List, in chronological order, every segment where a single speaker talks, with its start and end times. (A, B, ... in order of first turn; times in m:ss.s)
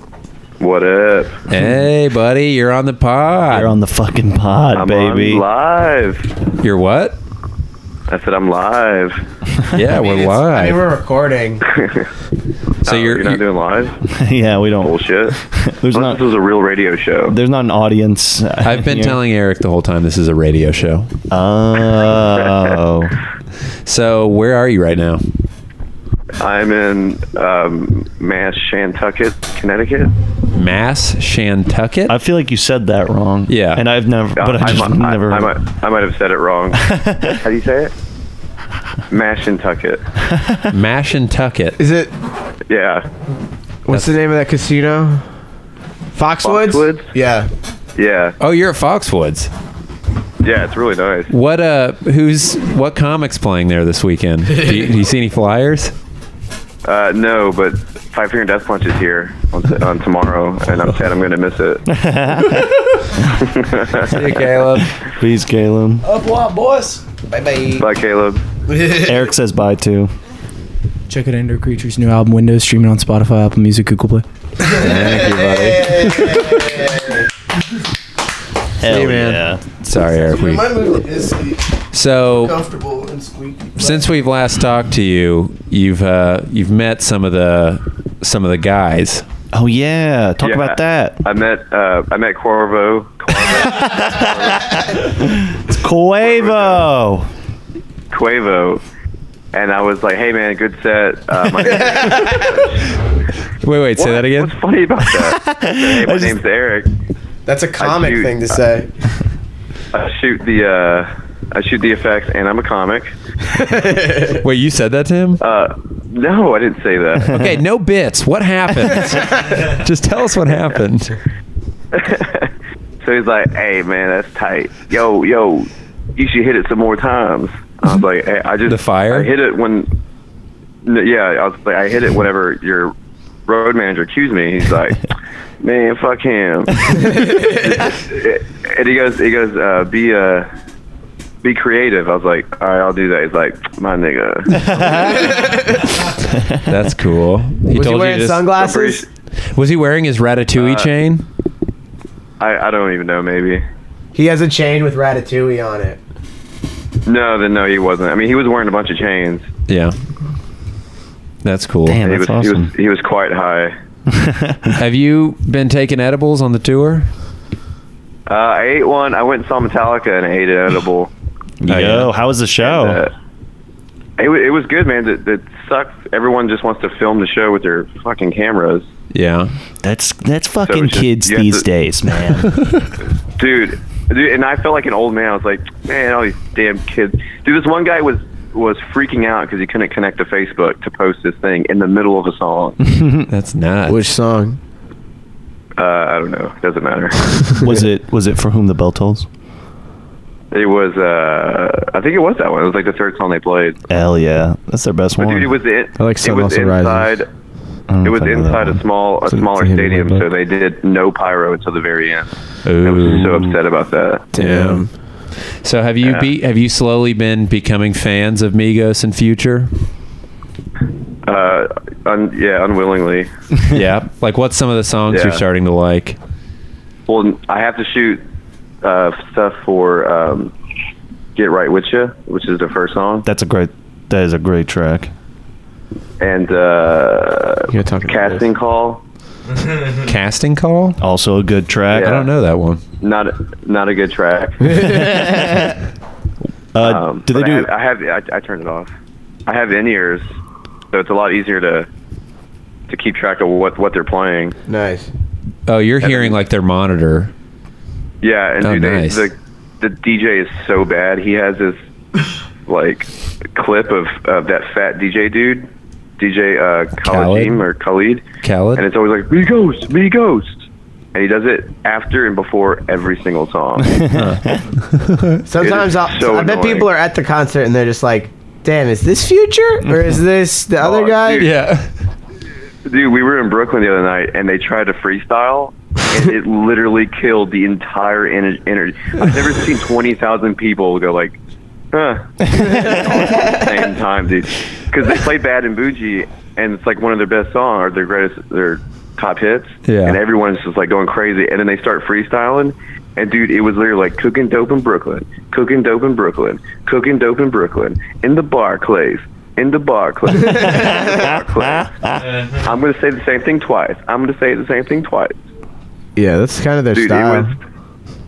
0:00.6-0:01.4 A
0:01.5-0:03.8 B
0:03.5-0:05.4 C
0:04.7-0:06.3 A
0:06.6-0:07.2 B
0:08.1-0:09.2 A
0:09.7-0:10.8 B
0:09.9-0:11.6 D
0:11.7-0:12.0 A
0:12.8-0:14.0 A
0:12.8-0:13.4 B
0:14.0-0:16.2 C
0:14.8-0:15.4 A
0:15.9-0:17.4 A
0:17.3-0:19.2 C
0:18.6-0:21.1 B
0:21.3-0:23.1 C
0:23.8-0:25.2 B
0:26.4-0:30.1 A
0:30.5-0:32.1 B
0:32.1-0:35.6 C
0:33.5-0:33.8 B
0:34.4-0:36.8 A
0:36.8-0:37.3 C
0:37.4-0:37.9 A
0:39.1-0:40.0 A
0:40.7-0:41.8 B
0:41.8-0:42.1 D
0:42.7-0:43.0 A
0:43.8-0:45.2 D
0:46.1-0:47.5 D
0:46.4-0:47.1 A
0:48.0-0:48.4 A
0:48.4-0:49.5 B
0:50.4-0:51.3 A
0:51.3-0:55.9 B
0:56.8-1:01.8 A
1:01.9-1:03.3 C
1:03.4-1:04.2 A
1:04.0-1:04.9 B
1:05.0-1:06.0 C
1:06.1-1:07.0 E
1:06.4-1:07.8 D
1:07.8-1:08.4 A
1:08.7-1:09.3 D
1:08.9-1:10.1 C
1:11.1-1:14.2 E
1:14.6-1:17.3 D
1:14.7-1:16.5 B
1:18.8-1:19.6 C
1:18.8-1:20.7 B
1:19.9-1:24.1 D
1:21.9-1:22.6 B
1:23.8-1:29.2 B
1:29.5-1:31.2 C
1:30.4-1:34.6 A
1:33.6-1:37.3 C
1:36.2-1:36.9 A
1:38.1-1:38.8 A
1:39.5-1:42.9 A
1:43.6-1:44.6 B
1:44.0-1:46.9 A
1:45.1-1:46.4 C
1:47.4-1:48.9 D
1:47.8-1:48.6 A
1:49.9-1:53.1 A
1:53.5-1:54.4 D
1:54.4-1:55.4 B
1:55.4-1:57.4 A
1:57.3-2:01.2 B
2:01.9-2:02.5 A
2:03.0-2:09.9 A
2:08.7-2:09.3 B
2:10.8-2:12.9 A
2:13.5-2:15.0 A
2:15.6-2:20.5 A
2:21.4-2:25.5 A
2:24.5-2:25.3 C
2:26.3-2:26.6 C
2:26.6-2:28.5 B
2:27.7-2:29.0 D
2:28.6-2:29.0 A
2:29.5-2:31.2 B
2:30.5-2:30.9 A
2:32.4-2:33.6 A
2:34.1-2:36.0 D
2:37.0-2:39.4 A
2:39.7-2:39.9 B
2:41.4-2:42.0 B
2:41.9-2:42.7 C
2:42.0-2:43.7 A
2:44.1-2:44.7 C
2:44.8-2:47.1 B
2:48.3-2:51.1 A
2:51.6-2:53.0 C
2:51.7-2:52.1 B
2:52.6-2:53.1 A
2:54.2-2:58.9 A
2:59.1-2:59.5 B
2:59.8-3:02.8 C
3:00.6-3:01.6 A
3:03.4-3:12.8 A
3:13.3-3:14.1 B
3:13.9-3:14.6 D
3:15.8-3:17.5 A
3:17.6-3:19.3 C
3:20.5-3:23.8 A
3:23.9-3:25.6 C
3:25.2-3:27.3 A
3:26.0-3:27.1 D
3:27.9-3:28.8 C
3:28.0-3:32.3 A
3:29.3-3:30.2 D
3:32.6-3:33.5 B
3:32.8-3:34.3 A
3:34.3-3:34.9 D
3:34.4-3:34.8 B
3:35.6-3:39.7 B
3:36.0-3:36.3 A
3:41.2-3:43.3 A
3:43.7-3:46.2 B
3:45.1-3:45.4 A
3:47.1-3:48.2 A
3:48.8-3:50.5 A
3:51.3-3:53.2 A
3:53.2-3:55.1 C
3:56.2-3:59.0 A
3:57.7-3:58.4 D
4:00.0-4:01.0 B
4:01.0-4:02.2 C
4:01.9-4:02.3 A
4:01.9-4:02.8 B
4:03.0-4:04.9 A
4:04.9-4:05.8 C
4:06.7-4:07.7 C
4:06.8-4:08.9 A
4:09.4-4:10.2 A
4:10.9-4:11.9 A
4:12.9-4:14.6 A
4:14.7-4:15.1 D
4:15.6-4:17.3 B
4:16.0-4:16.4 A
4:18.2-4:21.8 A
4:18.6-4:19.3 B
4:22.7-4:28.2 A
4:27.0-4:27.6 B
4:28.4-4:28.8 B
4:28.8-4:30.6 A
4:31.1-4:34.0 A
4:33.9-4:34.6 C
4:34.1-4:35.4 B
4:35.5-4:41.5 D
4:35.6-4:36.9 A
4:40.8-4:41.5 A
4:41.4-4:41.9 B
4:42.8-4:51.4 A
4:51.9-5:11.9 A
4:59.8-5:00.2 B
5:10.8-5:11.9 C
5:12.4-5:15.4 A
5:16.2-5:17.5 D
5:16.9-5:17.6 A